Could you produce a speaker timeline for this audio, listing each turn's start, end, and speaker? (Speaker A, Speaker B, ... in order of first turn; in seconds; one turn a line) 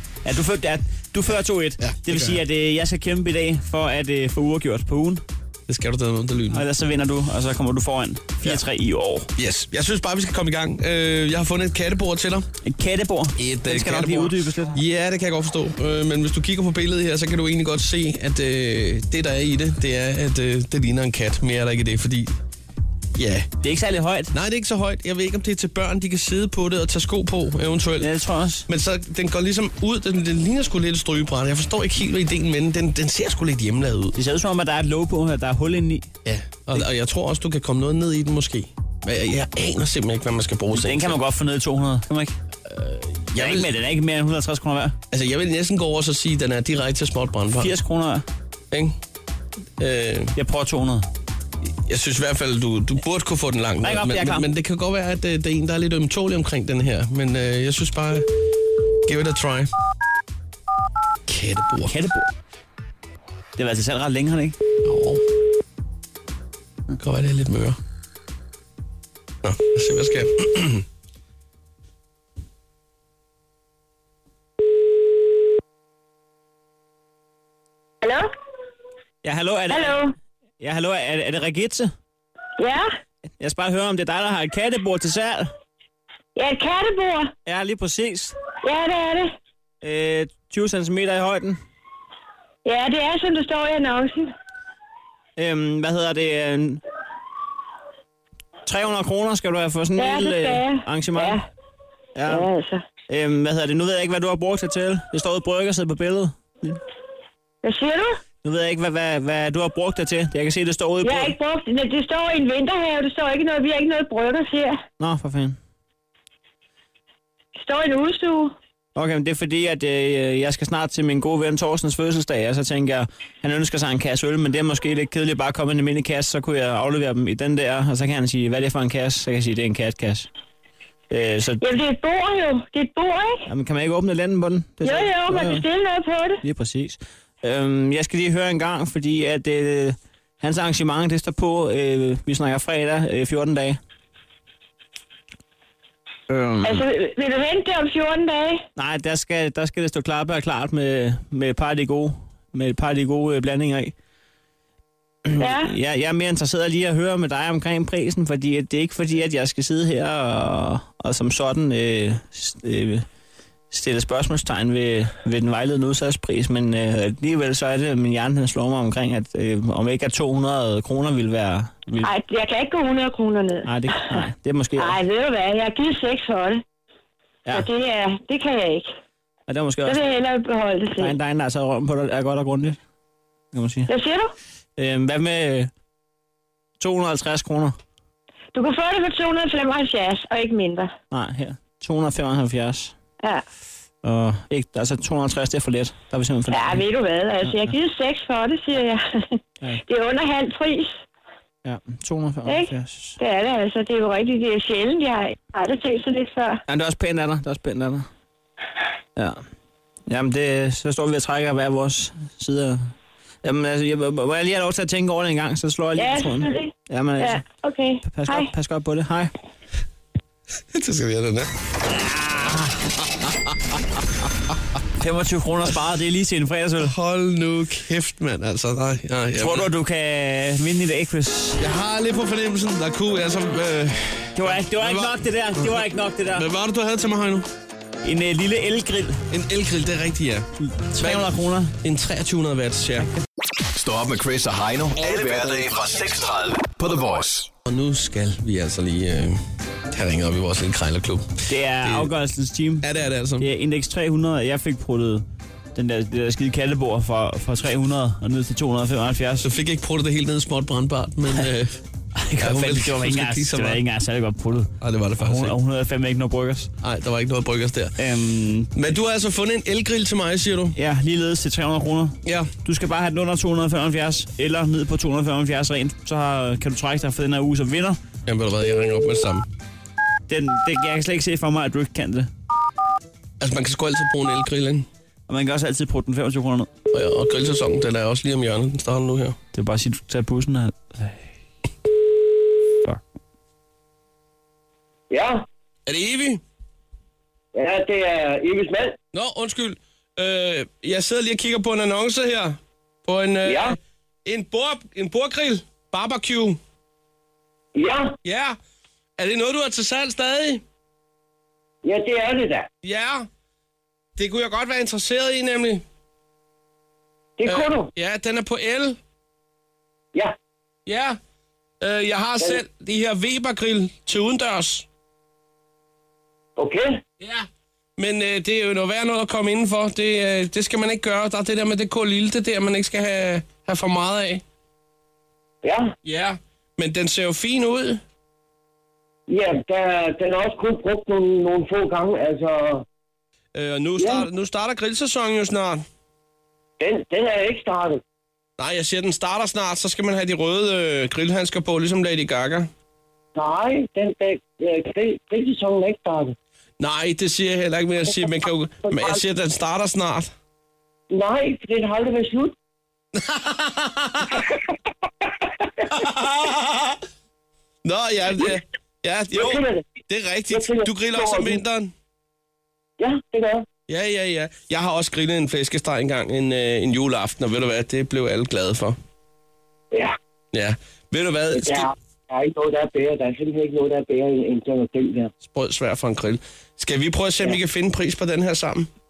Speaker A: 0.2-5.2
Speaker B: 1.8-2.4
Speaker B: 5.7-6.6
Speaker A: 6.5-9.3
Speaker B: 9.4-12.5
Speaker A: 12.7-14.8
Speaker B: 13.4-22.4
Speaker B: 23.2-23.5
Speaker A: 23.6-24.3
Speaker B: 24.3-28.1
Speaker A: 28.0-28.7
Speaker B: 28.7-34.1
Speaker A: 34.1-36.1
Speaker B: 36.2-41.2
Speaker A: 40.8-42.4
Speaker B: 42.7-43.7
Speaker A: 43.4-45.0
Speaker B: 45.1-47.7
Speaker A: 47.6-48.2
Speaker B: 49.8-50.4
Speaker A: 50.4-51.1
Speaker B: 51.9-58.3
Speaker A: 53.8-54.5
Speaker B: 59.1-59.7
Speaker B: 61.3-61.9
Speaker A: 61.9-62.3
Speaker A: 63.6-64.6
Speaker B: 64.8-65.2
Speaker B: 67.0-67.8
Speaker B: 69.4-70.8
Speaker C: 78.0-78.3
Speaker A: 79.2-80.0
Speaker C: 79.7-80.1
Speaker A: 80.6-81.9
Speaker C: 82.6-82.9
Speaker A: 83.4-85.5
Speaker C: 86.4-87.3
Speaker A: 87.5-88.4
Speaker C: 88.6-89.4
Speaker A: 89.8-91.6
Speaker C: 92.7-94.3
Speaker A: 95.4-96.8
Speaker A: 98.7-101.4
Speaker C: 100.0-101.4
Speaker A: 102.2-102.5
Speaker C: 102.3-102.8
Speaker A: 103.1-106.8
Speaker C: 107.6-108.2
Speaker A: 108.4-111.4
Speaker C: 111.0-114.8
Speaker A: 115.0-115.6
Speaker C: 117.6-118.5
Speaker A: 119.0-130.3
Speaker A: 131.1-131.6
Speaker C: 131.6-133.4
Speaker A: 133.5-135.7
Speaker C: 134.8-136.4
Speaker A: 136.4-143.8
Speaker A: 146.3-146.9
Speaker C: 146.6-148.6
Speaker A: 148.8-153.9
Speaker A: 155.3-163.1
Speaker C: 155.4-155.7
Speaker A: 163.7-172.1
Speaker C: 172.0-173.7
Speaker A: 173.7-175.0
Speaker C: 174.8-176.6
Speaker C: 177.5-178.9
Speaker A: 179.5-180.0
Speaker C: 179.8-181.2
Speaker A: 181.0-182.8
Speaker A: 183.5-183.9
Speaker C: 183.9-184.3
Speaker A: 184.8-185.7
Speaker A: 186.8-187.8
Speaker C: 188.5-190.9
Speaker A: 191.1-192.9
Speaker A: 194.0-196.8
Speaker C: 196.5-201.0
Speaker A: 197.5-197.7
Speaker A: 201.7-203.2
Speaker C: 202.5-206.6
Speaker A: 206.7-208.1
Speaker A: 209.2-209.4
Speaker A: 210.1-212.9
Speaker A: 213.4-217.4
Speaker C: 216.0-218.5
Speaker A: 218.0-219.3
Speaker B: 220.7-221.5
Speaker A: 221.9-222.8
Speaker A: 225.0-226.9
Speaker B: 226.8-229.7
Speaker A: 229.4-231.6
Speaker B: 231.6-237.5
Speaker A: 234.3-236.4
Speaker A: 238.0-239.2
Speaker B: 239.3-240.5
Speaker A: 240.6-241.8
Speaker B: 241.0-243.1
Speaker D: 243.7-247.5
Speaker B: 247.7-249.4
Speaker B: 249.9-252.1
Speaker A: 251.5-252.9
Speaker B: 252.8-253.5
Speaker A: 253.4-259.5
Speaker B: 259.4-261.8
Speaker A: 262.2-266.7
Speaker B: 262.4-263.8
Speaker B: 264.8-265.6
Speaker B: 266.8-268.0
Speaker A: 268.0-268.7
Speaker B: 268.8-270.8
Speaker A: 270.8-278.0
Speaker B: 272.2-272.5
Speaker B: 278.3-279.5
Speaker A: 280.3-282.3
Speaker B: 283.4-284.9
Speaker A: 285.3-286.7
Speaker B: 286.9-289.4
Speaker A: 289.5-291.3
Speaker E: 295.1-295.4
Speaker B: 295.9-296.4
Speaker E: 297.5-299.0
Speaker B: 299.1-306.6
Speaker E: 303.4-303.8
Speaker E: 307.8-308.1
Speaker B: 308.2-308.6
Speaker B: 309.2-310.6
Speaker E: 311.8-312.7
Speaker B: 312.8-313.3
Speaker B: 314.2-315.8
Speaker E: 317.4-317.9
Speaker B: 317.4-319.0
Speaker B: 320.9-321.2
Speaker B: 321.8-324.9
Speaker E: 326.6-327.0
Speaker B: 327.2-334.4
Speaker E: 335.6-335.9
Speaker B: 336.1-338.0
Speaker E: 339.3-342.9
Speaker B: 343.5-345.9
Speaker E: 344.0-344.3
Speaker E: 346.8-348.0
Speaker B: 348.6-352.7
Speaker E: 353.4-356.4
Speaker B: 356.8-360.3
Speaker E: 358.9-359.2
Speaker E: 361.1-362.5
Speaker B: 363.2-364.3
Speaker B: 366.0-366.9
Speaker B: 367.9-371.9
Speaker E: 369.3-369.9
Speaker E: 370.5-371.6
Speaker E: 373.0-373.7
Speaker B: 373.9-379.0
Speaker B: 380.5-381.9
Speaker E: 381.5-385.3
Speaker B: 385.5-388.9